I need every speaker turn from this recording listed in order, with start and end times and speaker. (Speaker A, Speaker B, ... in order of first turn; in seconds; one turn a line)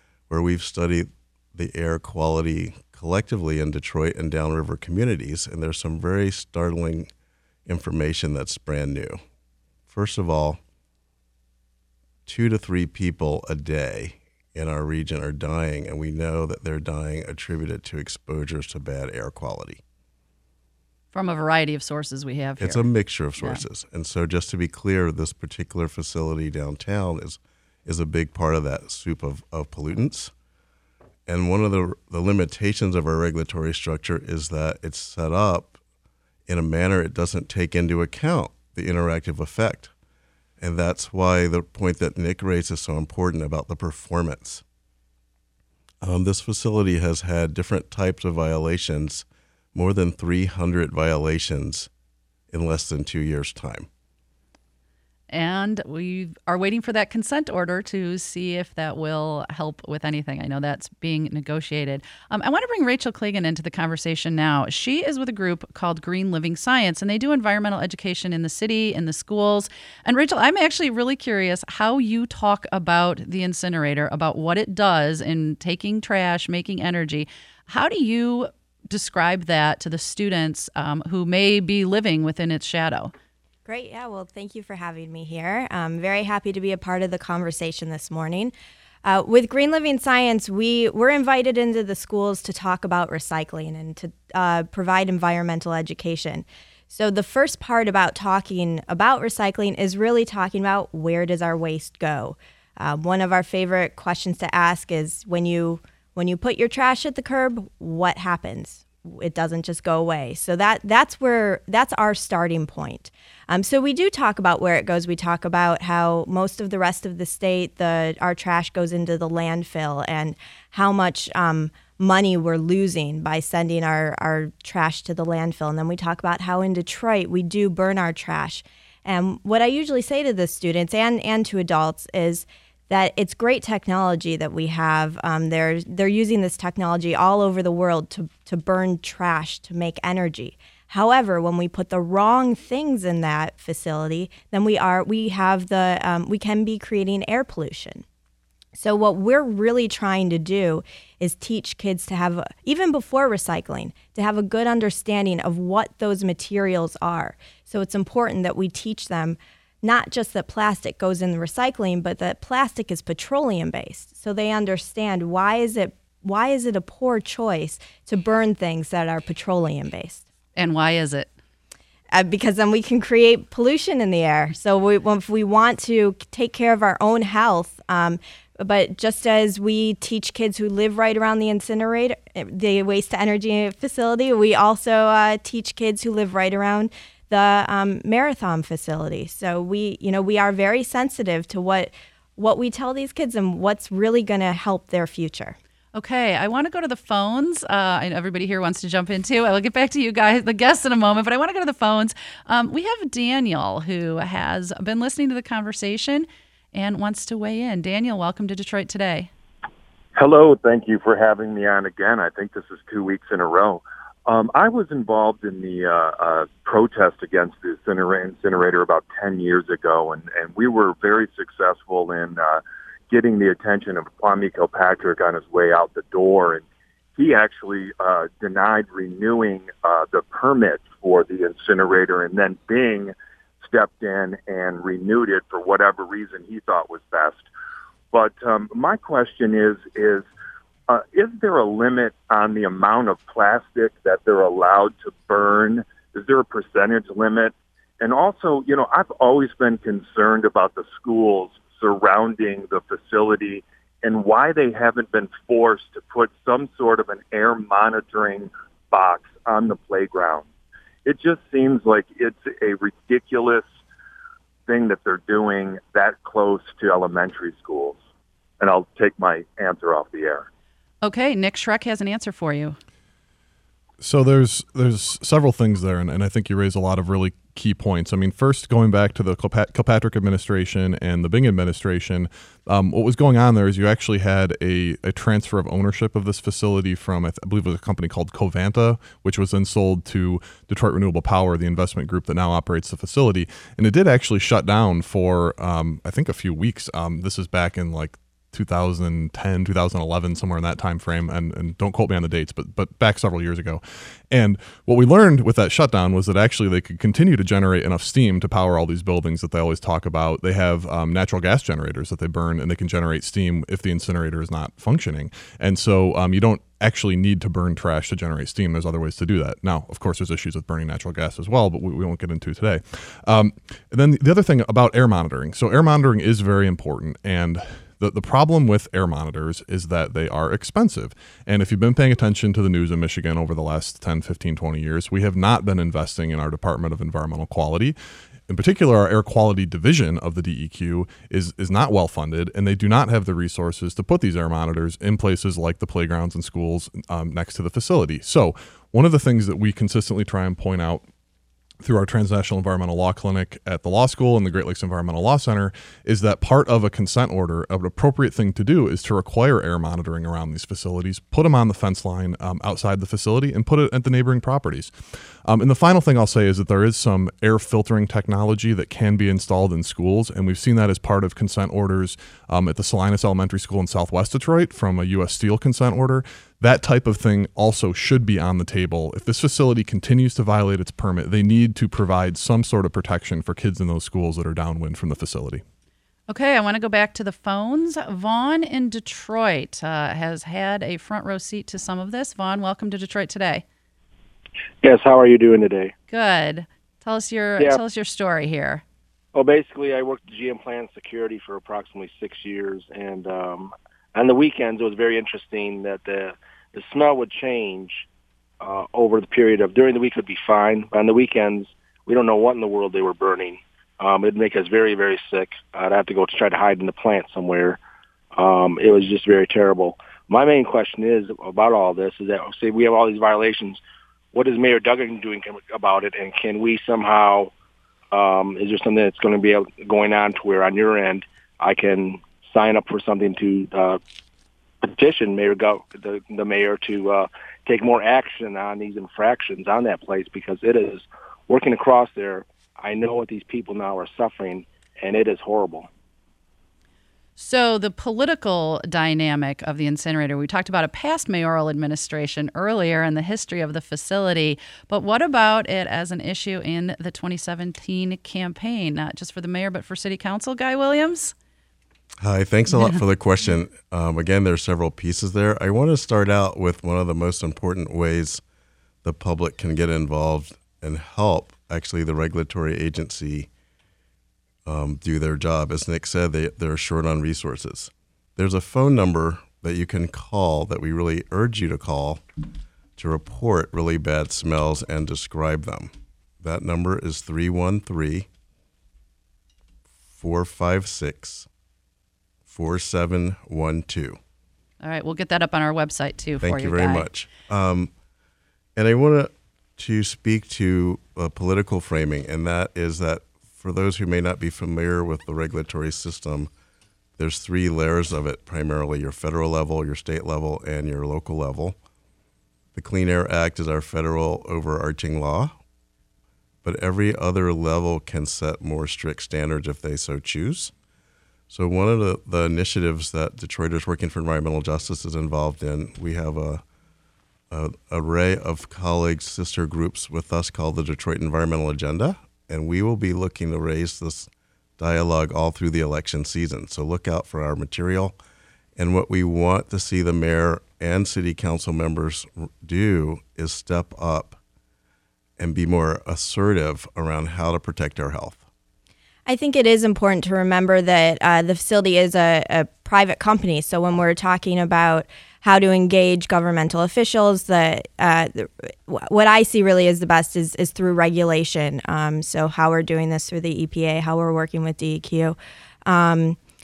Speaker A: 0.3-7.1
Speaker A: 7.7-9.2
Speaker A: 9.9-10.6
Speaker A: 12.3-19.8
Speaker B: 21.1-23.6
Speaker A: 22.6-30.3
Speaker A: 31.3-35.8
Speaker A: 36.5-39.9
Speaker A: 40.6-44.6
Speaker A: 46.0-51.9
Speaker A: 52.5-53.9
Speaker B: 55.3-83.1
Speaker C: 83.7-88.5
Speaker C: 89.0-148.0
Speaker C: 148.8-170.2
Speaker B: 170.6-171.3
Speaker C: 172.1-195.6
Speaker B: 195.9-209.3
Speaker D: 210.2-237.5
Speaker D: 238.1-240.3
Speaker D: 240.9-260.5
Speaker D: 261.1-263.7
Speaker D: 264.7-268.0
Speaker D: 268.6-270.5
Speaker B: 271.0-272.8
Speaker E: 274.0-337.9
Speaker E: 338.5-351.1
Speaker E: 351.8-385.6
Speaker B: 386.3-393.6
Speaker F: 394.8-395.9
Speaker B: 396.1-398.8
Speaker F: 399.4-408.0
Speaker F: 408.6-417.8
Speaker F: 418.4-423.8
Speaker F: 424.3-427.5
Speaker F: 428.1-434.0
Speaker F: 434.8-445.9
Speaker B: 447.4-461.3
Speaker A: 462.2-468.4
Speaker B: 462.7-463.0
Speaker A: 469.0-473.5
Speaker A: 474.6-482.2
Speaker A: 483.0-488.3
Speaker A: 490.2-491.5
Speaker A: 492.5-494.2
Speaker B: 494.8-497.1
Speaker A: 496.4-497.9
Speaker A: 498.8-506.5
Speaker A: 507.2-511.8
Speaker A: 512.7-515.5
Speaker A: 516.6-520.7
Speaker A: 521.5-526.6
Speaker A: 527.5-538.2
Speaker A: 538.8-544.4
Speaker A: 545.4-548.4
Speaker C: 549.3-566.4